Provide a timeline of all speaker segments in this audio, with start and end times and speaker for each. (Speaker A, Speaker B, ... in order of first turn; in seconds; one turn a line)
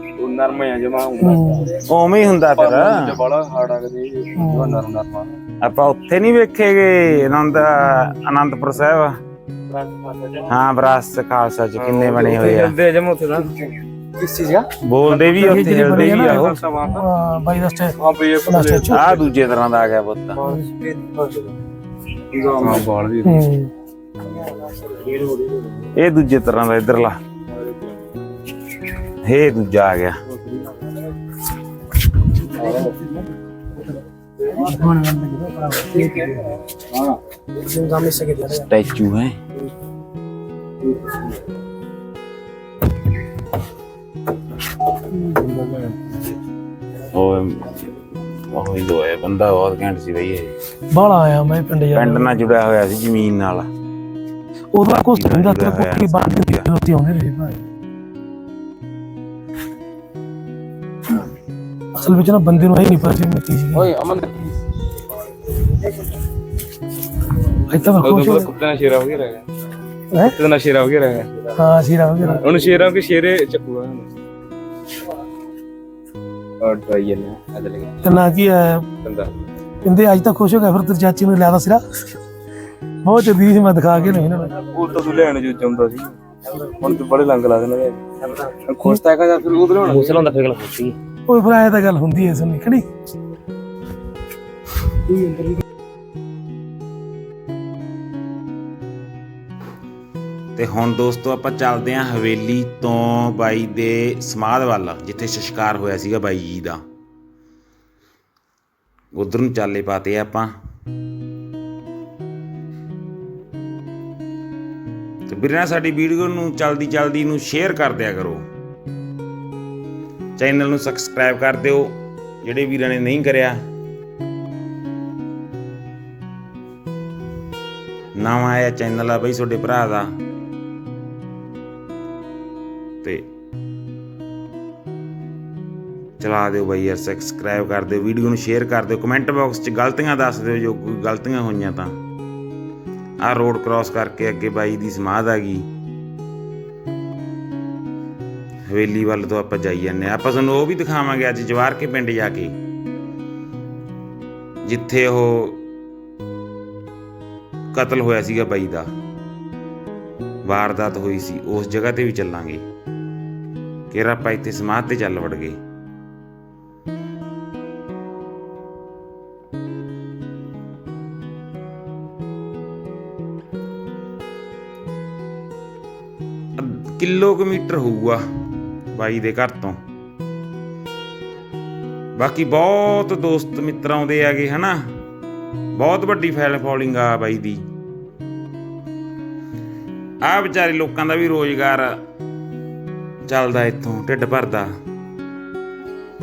Speaker A: 0.2-1.8
Speaker B: 1.2-1.7
Speaker C: 1.8-3.2
Speaker A: 2.5-5.4
Speaker B: 4.4-4.8
Speaker C: 5.6-9.2
Speaker A: 9.8-10.5
Speaker C: 10.5-12.8
Speaker A: 11.8-17.1
Speaker C: 14.8-16.6
Speaker B: 15.4-18.0
Speaker A: 18.0-19.2
Speaker B: 18.5-19.1
Speaker C: 18.9-20.4
Speaker A: 20.5-21.4
Speaker A: 22.3-23.5
Speaker B: 23.2-23.7
Speaker A: 24.9-25.8
Speaker C: 25.9-27.2
Speaker A: 27.5-27.9
Speaker C: 29.2-30.2
Speaker A: 30.3-30.8
Speaker A: 32.5-33.0
Speaker B: 34.5-36.6
Speaker A: 36.8-37.2
Speaker B: 37.6-38.7
Speaker C: 38.5-39.4
Speaker A: 45.4-46.2
Speaker C: 47.1-50.5
Speaker B: 50.9-52.3
Speaker C: 51.9-53.7
Speaker B: 54.7-57.6
Speaker C: 54.9-56.7
Speaker B: 62.0-63.9
Speaker A: 63.8-64.5
Speaker B: 67.7-68.5
Speaker A: 68.0-69.5
Speaker B: 70.1-70.4
Speaker A: 70.3-71.5
Speaker B: 71.6-72.5
Speaker A: 72.3-74.1
Speaker A: 76.6-78.0
Speaker B: 78.0-78.8
Speaker A: 79.0-79.4
Speaker B: 79.8-81.8
Speaker B: 83.0-84.6
Speaker A: 84.6-90.3
Speaker C: 89.9-90.9
Speaker B: 91.3-92.8
Speaker C: 100.6-106.8
Speaker C: 109.1-110.5
Speaker C: 115.3-118.4
Speaker C: 120.4-123.6
Speaker C: 128.2-130.1
Speaker C: 136.2-142.0
Speaker C: 143.2-145.7
Speaker C: 148.7-152.6
Speaker C: 154.7-155.6
Speaker C: 157.7-158.9
Speaker C: 160.4-162.6
Speaker C: 163.9-165.6
Speaker C: 176.6-178.2
Speaker C: 178.9-179.8
Speaker C: 182.2-184.9
Speaker C: 185.8-187.6
Speaker C: 190.2-192.0
Speaker C: 193.3-194.7